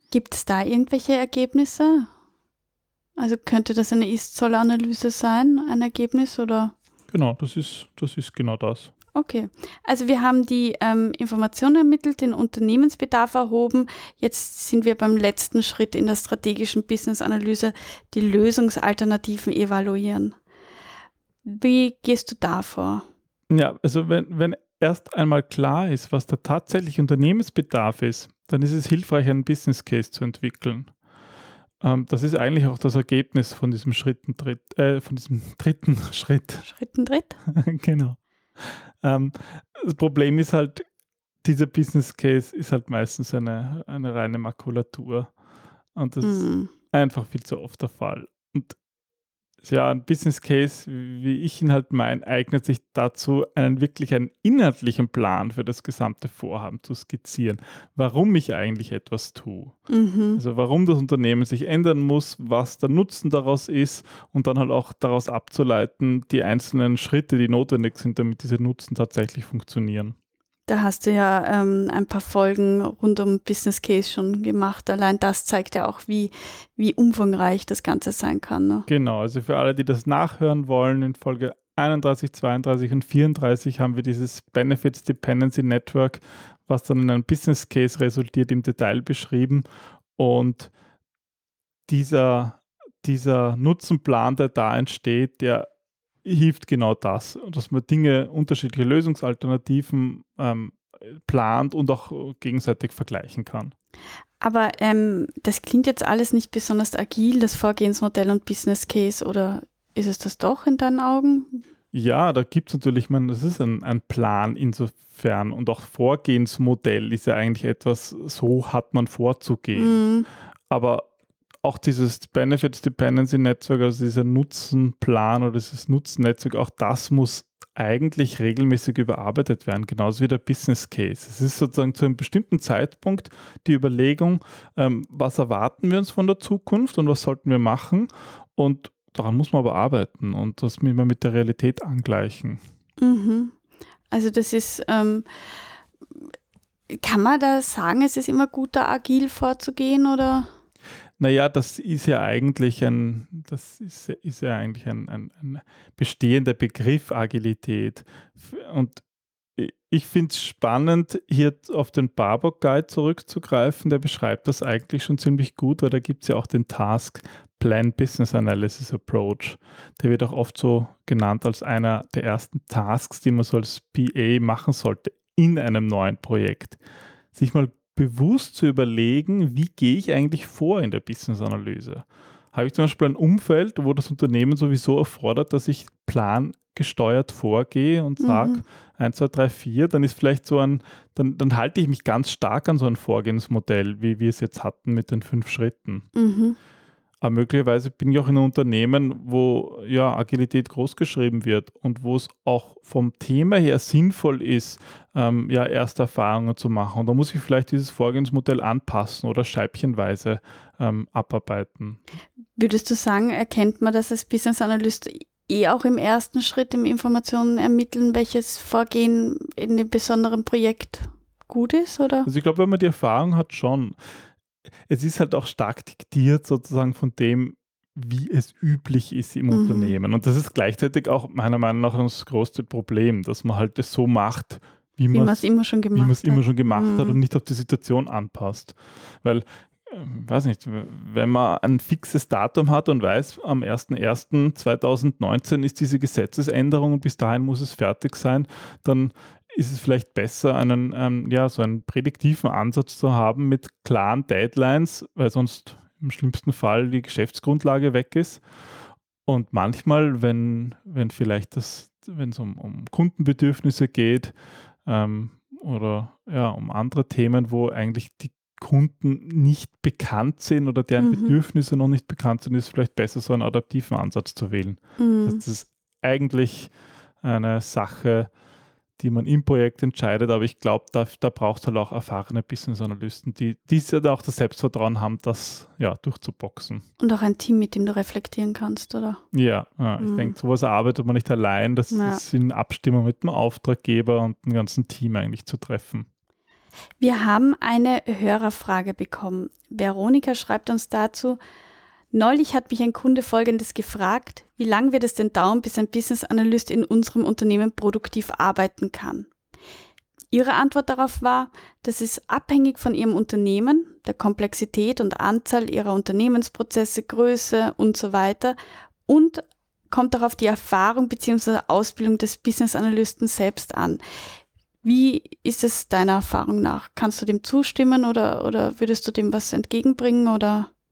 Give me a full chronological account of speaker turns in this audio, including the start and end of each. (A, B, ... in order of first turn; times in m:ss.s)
0:00.1-0:02.1 A
0:03.2-0:06.7 A
0:07.1-0:08.9 B
0:09.1-0:20.4 A
0:21.4-0:23.0 A
0:23.5-0:30.9 B
0:31.8-0:36.6 B
0:36.6-0:37.4 A
0:37.5-0:40.8 B
0:41.4-0:45.3 B
0:46.0-0:48.8 B
0:46.2-0:46.7 A
0:49.6-0:59.7 B
0:59.9-1:00.4 A
1:00.4-1:10.2 B
1:10.7-1:18.9 A
1:18.9-1:29.6 B
1:30.2-1:30.7 B
1:31.9-1:35.7 B
1:36.2-1:43.7 B
1:44.4-1:51.6 A
1:51.9-2:00.0 B
1:59.7-2:00.3 A
2:00.7-2:01.1 B
2:01.6-2:22.6 B
2:23.0-2:23.5 A
2:24.1-2:25.2 A
2:26.9-2:30.5 A
2:31.2-2:39.0 B
2:39.6-2:56.8 B
2:57.3-3:16.1 B
3:08.2-3:08.6 A
3:16.1-3:16.6 A
3:17.2-3:32.0 B
3:32.6-3:42.3 A
3:42.2-3:44.0 B
3:44.9-4:18.4 B
3:49.5-3:49.9 A
3:55.1-3:57.2 A
4:19.2-4:24.3 B
4:24.8-4:36.7 B
4:31.0-4:31.4 A
4:35.0-4:35.4 A
4:37.2-4:38.3 B
4:39.0-4:46.8 B
4:47.0-4:49.2 A
4:49.3-4:56.1 B
4:50.0-4:50.3 A
4:51.9-4:52.2 A
4:57.0-5:01.4 A
5:02.1-5:09.3 A
5:10.3-5:24.0 A
5:24.8-5:30.7 A